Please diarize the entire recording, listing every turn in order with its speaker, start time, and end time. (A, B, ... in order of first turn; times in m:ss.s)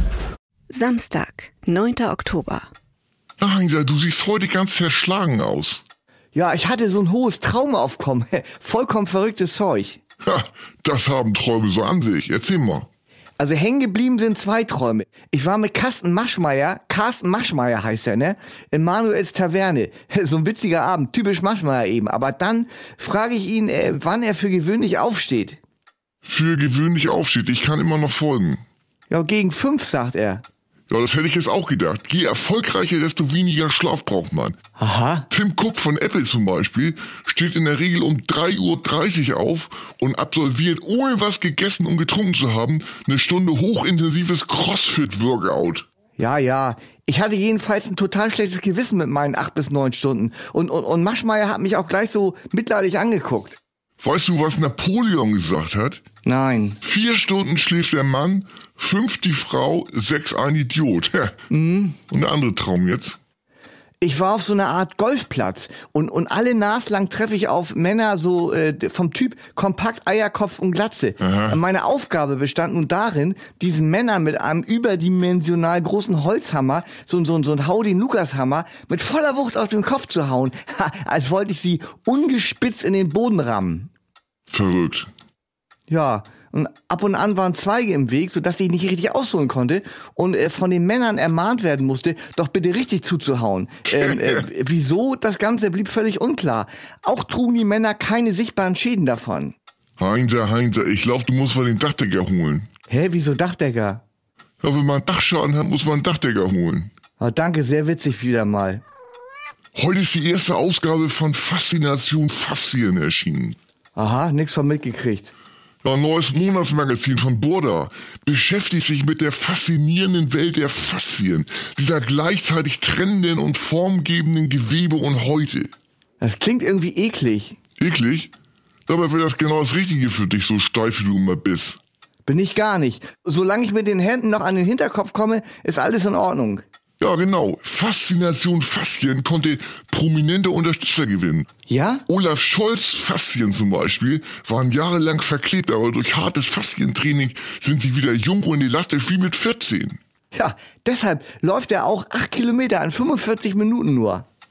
0:00.7-0:02.7 A
0:03.4-0:05.8 B
0:06.3-0:10.0 C
0:10.2-0:12.9 B
0:13.4-0:25.6 C
0:26.2-0:28.6 B
0:29.1-0:30.4 C
0:30.9-0:34.6 B
0:34.8-0:35.3 C
0:35.3-0:45.8 B
0:46.2-0:53.6 C
0:54.0-0:56.0 B
0:56.2-0:56.8 C
0:56.8-1:01.3 B
1:01.5-1:02.0 C
1:02.1-1:03.2 B
1:04.0-1:23.9 C
1:11.2-1:11.6 B
1:24.5-1:25.1 B
1:25.9-1:39.5 C
1:40.0-1:42.7 B
1:42.9-1:44.0 C
1:44.6-1:46.9 B
1:47.2-1:48.8 C
1:49.8-1:53.6 B
1:54.0-1:55.3 C
1:55.8-2:05.7 B
2:06.2-2:07.6 C
2:07.8-2:08.3 B
2:08.9-2:11.8 B
2:12.2-2:16.6 C
2:17.0-2:21.5 B
2:21.7-2:22.0 C
2:22.1-2:30.0 B
2:30.3-2:34.2 C